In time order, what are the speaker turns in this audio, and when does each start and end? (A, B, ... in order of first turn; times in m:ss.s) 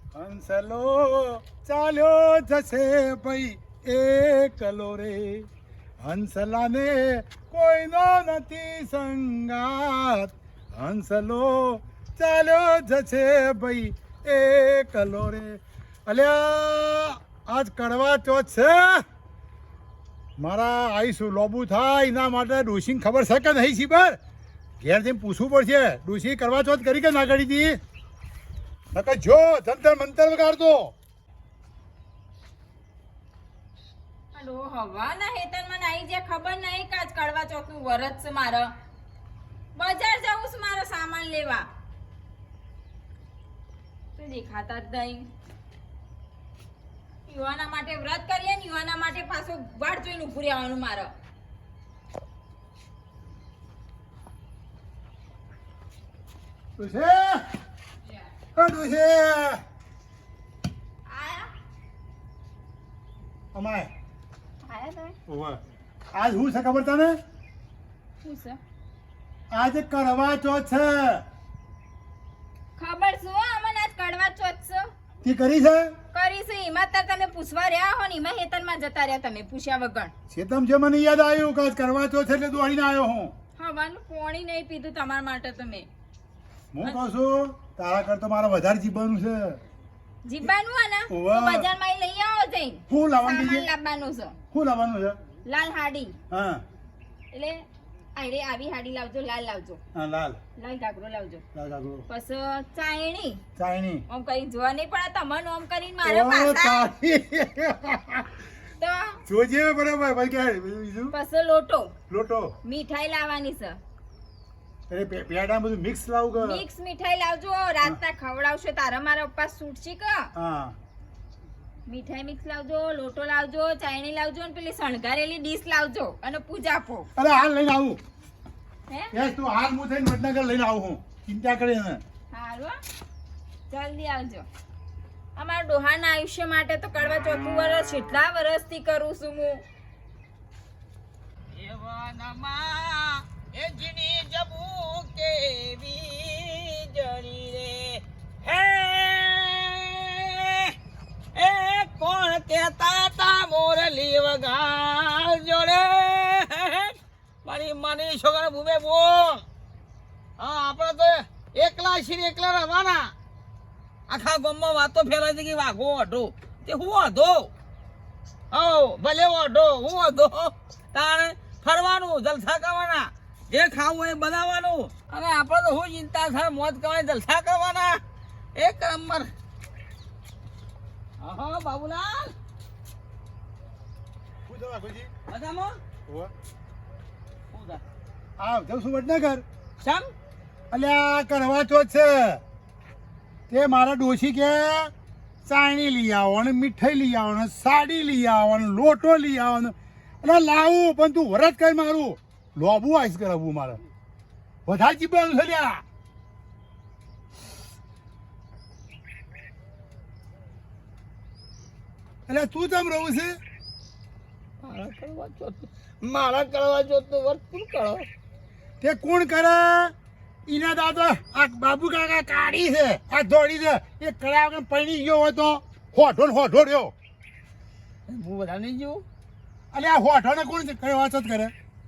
0:00.1-0:05.5 A
0:06.0-0:19.0 A
0:20.4-0:24.2 A
0:24.8-0:27.8 A
0:28.9-0:30.9 A
0:34.3-0:38.7 B
0:39.8-0:41.7 B
0:44.2-0:45.2 B
0:47.3-0:51.1 B
0:56.8-0:57.5 A
0:58.6-0:59.6 A
1:01.1-1:01.5 B
1:03.5-1:03.9 A
1:04.6-1:05.1 B
1:05.3-1:05.6 A
1:06.1-1:07.2 A
1:08.2-1:08.6 B
1:09.5-1:11.2 A
1:12.8-1:14.9 B
1:15.2-1:15.9 A
1:16.1-1:20.1 B
1:20.3-1:23.3 A
1:23.6-1:25.9 B
1:26.7-1:29.6 A
1:30.2-1:34.3 B
1:31.1-1:31.7 A
1:32.9-1:33.7 A
1:34.5-1:35.2 A
1:35.4-1:36.2 B
1:36.3-1:36.6 A
1:37.3-1:37.6 B
1:38.1-1:39.8 B
1:40.0-1:40.4 A
1:40.6-1:41.4 B
1:41.6-1:42.0 A
1:42.1-1:43.4 B
1:43.6-1:44.0 A
1:44.1-1:46.8 B
1:46.0-1:48.4 A
1:48.8-1:49.2 B
1:49.3-1:51.1 A
1:51.1-1:51.9 B
1:52.1-1:52.6 A
1:52.6-1:53.8 B
1:54.9-1:56.6 A
1:56.4-2:00.3 B
2:00.4-2:00.8 A
2:01.9-2:07.1 B
2:07.2-2:08.0 A
2:08.9-2:09.1 B
2:09.1-2:12.0 A
2:12.3-2:12.7 B
2:13.7-2:14.5 B
2:15.4-2:19.6 B
2:21.5-2:30.7 C
2:31.3-2:39.4 C
2:40.4-2:43.1 C
2:44.1-2:47.5 C
2:48.5-2:58.0 C
2:58.6-2:59.3 C
3:01.2-3:02.3 C
3:04.5-3:05.1 A
3:05.3-3:05.8 C
3:06.1-3:06.3 A
3:07.5-3:07.8 C
3:08.4-3:09.4 A
3:09.8-3:10.1 C
3:10.7-3:12.4 A
3:13.5-3:14.9 A
3:15.4-3:23.8 A
3:24.7-3:25.8 A
3:32.3-3:33.4 A
3:34.6-3:38.1 C
3:38.8-3:39.9 A
3:40.5-3:46.9 A
3:48.1-3:49.0 C
3:49.7-3:51.5 A